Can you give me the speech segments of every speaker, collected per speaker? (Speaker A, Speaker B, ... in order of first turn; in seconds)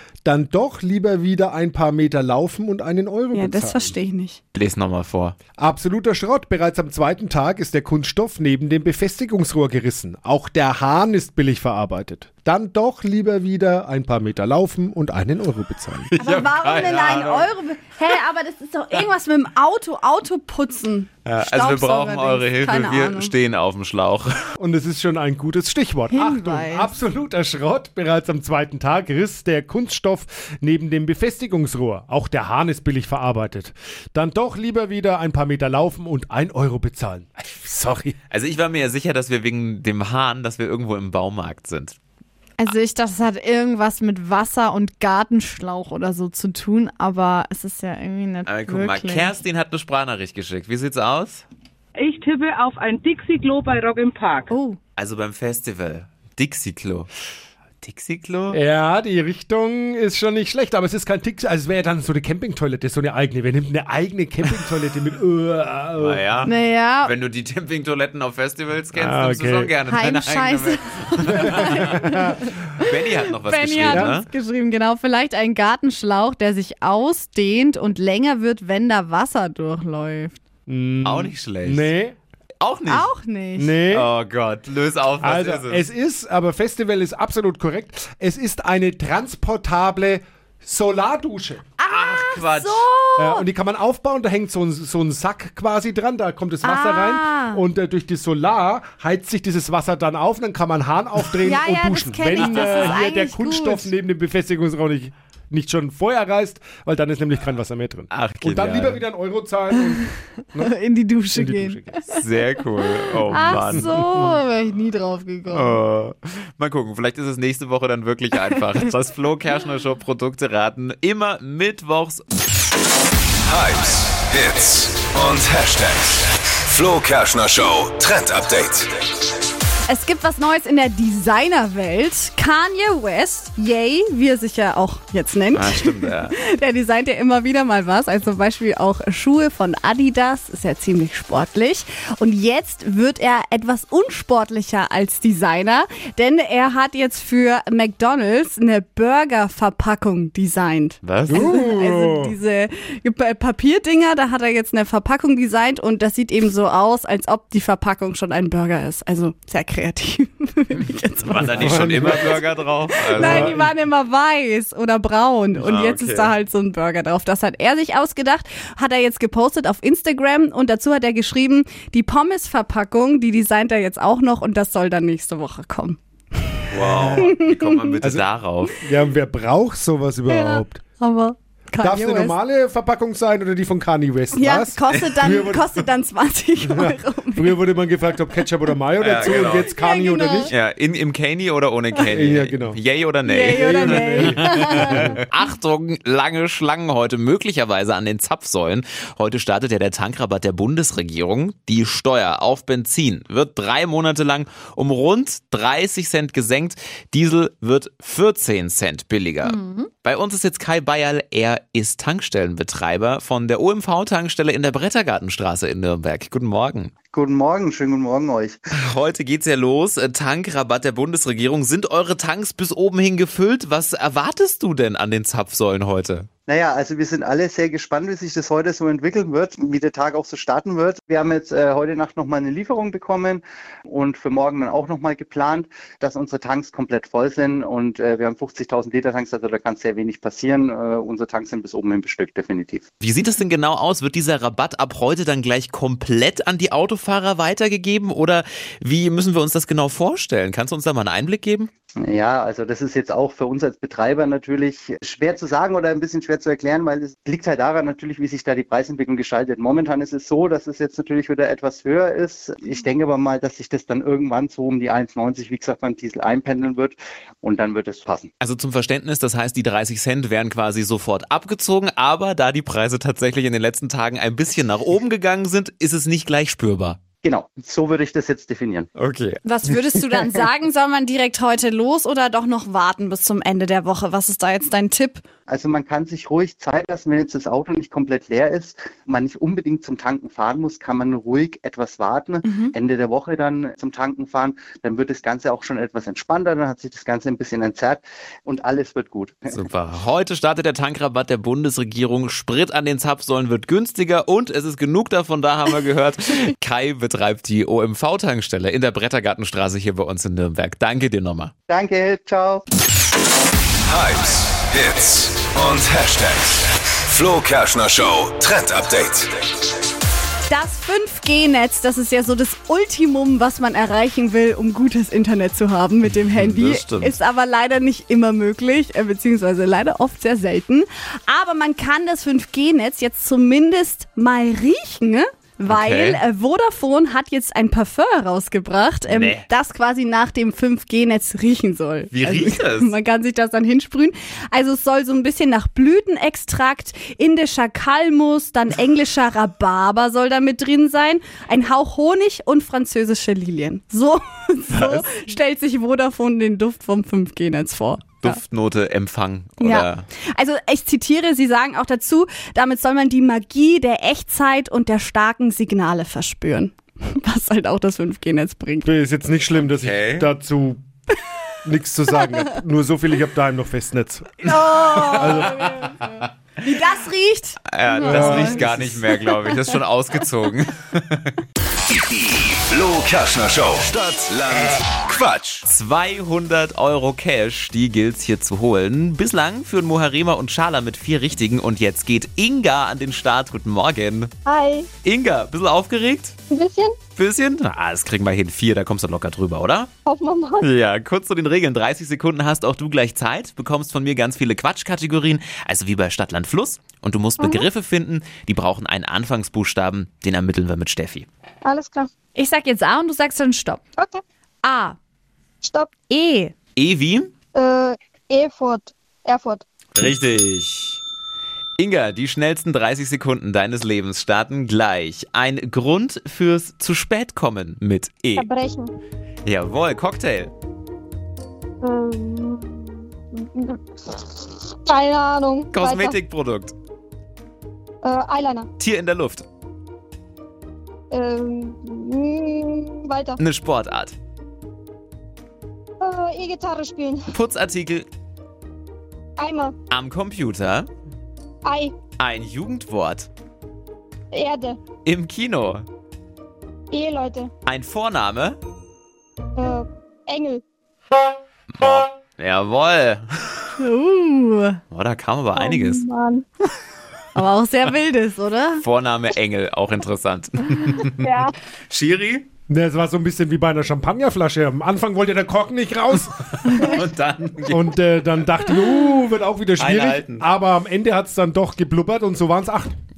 Speaker A: 0.2-4.0, 5.6-16.1, 24.6-38.1, 58.5-66.2, 68.9-69.7, 71.4-72.4, 73.9-74.1, 80.7-82.2, 83.5-84.1, 85.2-91.7, 93.2-110.8, 111.3-112.1, 113.4-114.4, 151.3-152.4, 161.5-162.4, 163.1-163.7, 178.0-178.3, 178.8-180.8, 181.8-185.7, 186.6-190.5, 192.1-192.8, 193.5-195.2, 368.8-370.8, 371.6-375.9, 378.0-379.0, 472.7-476.8, 477.7-482.9
Speaker B: 3.3-4.4, 16.2-23.3, 26.1-26.9, 42.6-49.4, 54.5-54.8, 66.4-67.1, 69.9-80.4, 82.9-83.8, 91.8-93.5, 96.6-97.6, 101.4-103.9, 110.6-112.2, 112.9-115.8, 129.9-162.4, 163.1-177.9, 180.3-182.3, 184.3-187.6, 189.3-190.5, 193.2-195.2, 209.4-209.9, 279.4-285.2, 292.4-292.7, 320.5-358.4, 359.6-368.9, 374.4-376.0, 376.6-379.6, 412.4-413.8, 414.6-415.0, 416.1-416.5, 463.8-464.8, 467.3-468.8
Speaker C: 4.5-5.3, 16.1-17.5, 21.2-24.3, 38.3-42.0, 48.4-51.4, 55.0-57.1, 57.8-58.6, 66.0-72.0, 72.8-74.3, 81.0-81.9, 82.6-83.1, 83.9-85.8, 91.8-92.8, 102.3-103.0, 108.1-109.0, 112.2-114.0, 115.5-122.2, 135.5-136.3, 151.0-151.6, 161.3-163.6, 165.6-166.3, 176.7-178.8, 189.0-189.7, 190.5-216.9, 218.8-226.3, 243.0-251.7, 268.4-277.0, 278.9-280.2, 299.5-311.5, 326.1-327.2, 335.7-336.2, 339.1-339.5, 342.1-342.9, 354.7-355.0, 358.2-360.1, 369.6-370.3, 377.7-381.4, 385.6-394.3, 395.0-396.3, 397.1-399.9, 400.6-411.3, 416.8-417.3, 419.9-421.0, 421.8-428.5, 429.4-430.5, 435.7-436.7, 438.8-439.4, 443.4-444.1, 447.3-448.1, 449.9-450.9, 452.2-453.3, 455.0-455.9, 457.6-458.6, 461.7-463.7, 464.9-466.1, 468.8-472.5, 476.7-478.0, 479.8-480.5
Speaker D: 52.0-54.5
Speaker E: 123.4-128.9, 313.9-319.4, 382.0-385.6
Speaker F: 217.1-218.6, 226.5-242.8, 252.0-268.3, 277.2-278.9, 285.5-299.6, 311.7-312.6
Speaker G: 394.4-394.9, 396.5-397.0, 400.1-400.7, 407.4-407.7, 411.6-412.1, 414.0-414.2, 415.6-415.9, 417.5-419.6, 428.3-428.9, 431.8-436.1, 438.0-438.7, 441.1-443.4, 446.0-447.3, 449.4-449.7, 451.6-451.9, 454.3-454.8, 456.9-457.5, 459.6-460.6, 465.5-466.4, 471.2-471.5